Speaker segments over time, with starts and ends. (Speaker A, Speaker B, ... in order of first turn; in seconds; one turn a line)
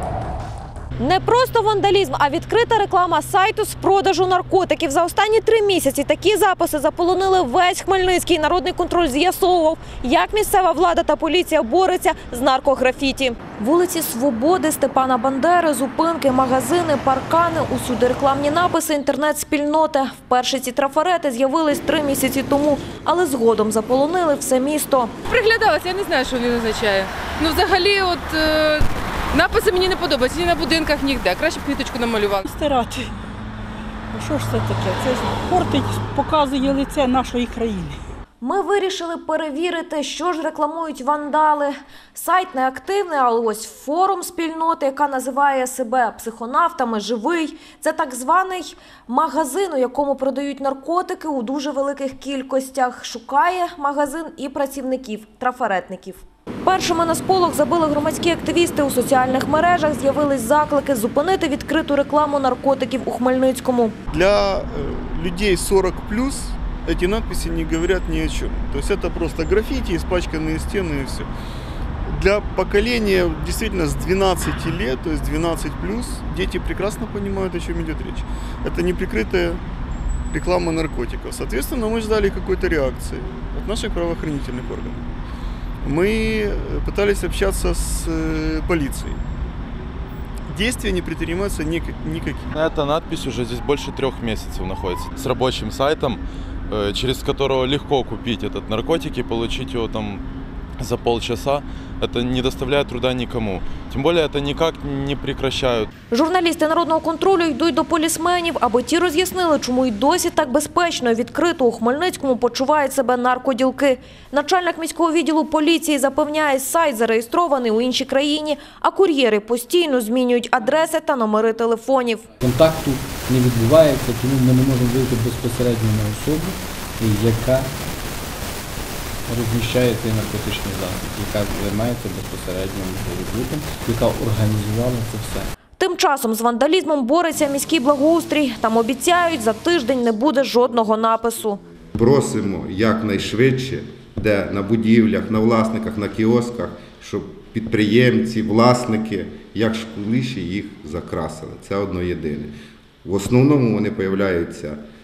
Speaker A: 1.0-25.1
Speaker B: 25.3-32.5
Speaker C: 32.5-33.1
Speaker C: 34.1-38.0
Speaker A: 38.4-64.0
Speaker D: 64.1-71.3
Speaker D: 72.0-79.6
Speaker D: 80.3-85.0
Speaker D: 85.8-89.2
Speaker D: 90.5-92.5
Speaker E: 92.5-100.2
Speaker E: 100.8-105.9
Speaker A: 106.1-122.2
Speaker F: 122.4-127.7
Speaker F: 129.3-135.5
Speaker A: 135.8-141.6
Speaker G: 141.9-154.8